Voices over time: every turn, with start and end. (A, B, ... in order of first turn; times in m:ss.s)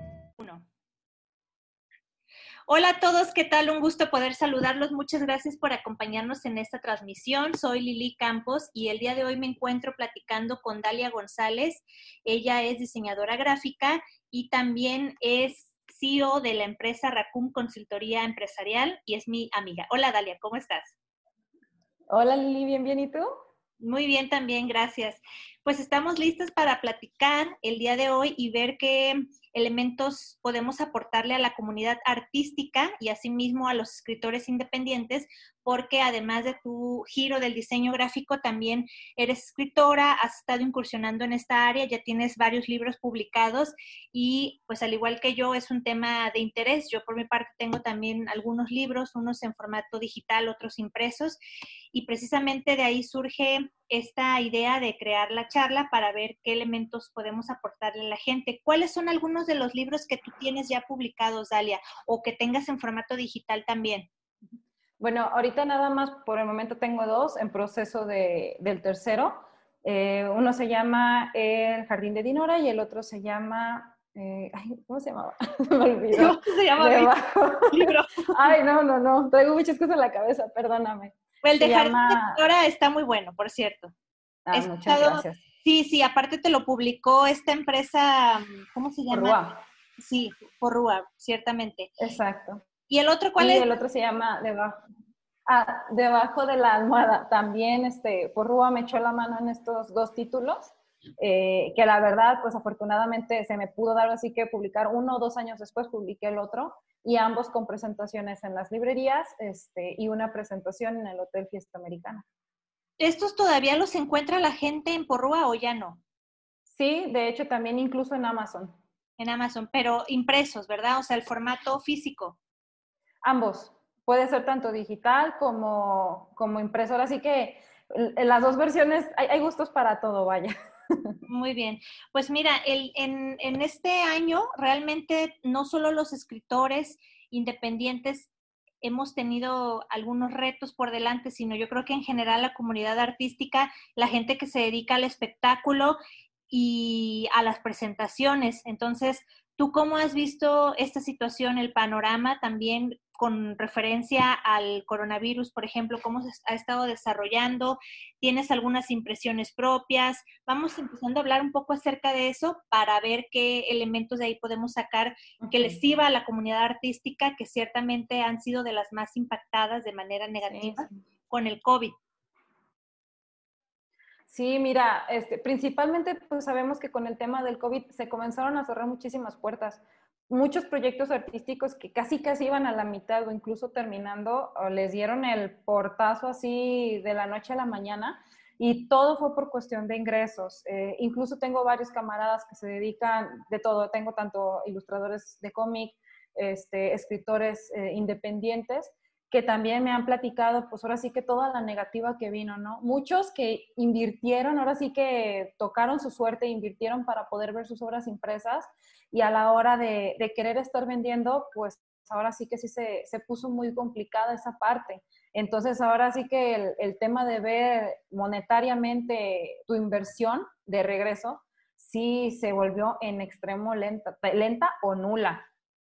0:00.4-0:00.6 A
0:02.7-0:21.0 A
0:22.1-0:23.3 B
0:23.8-0:51.4 A
0:51.9-1:04.1 A
1:05.0-1:22.4 B
1:16.1-1:17.2 A
1:17.7-1:18.6 A
1:21.4-1:23.9 A
1:24.4-1:25.4 B
1:24.5-1:29.4 A
1:29.1-1:29.6 B
1:30.0-1:31.9 A
1:32.0-1:32.6 B
1:32.9-1:33.7 A
1:33.4-1:34.8 B
1:35.4-1:52.2 B
1:53.0-1:56.0 A
1:56.7-1:58.7 B
1:59.2-2:02.4 A
2:03.2-2:10.5 B
2:11.3-2:18.3 A
2:18.8-2:26.0 A
2:26.5-2:51.9 A
2:45.4-2:45.8 B
2:50.4-2:50.9 B
2:54.3-3:45.5 B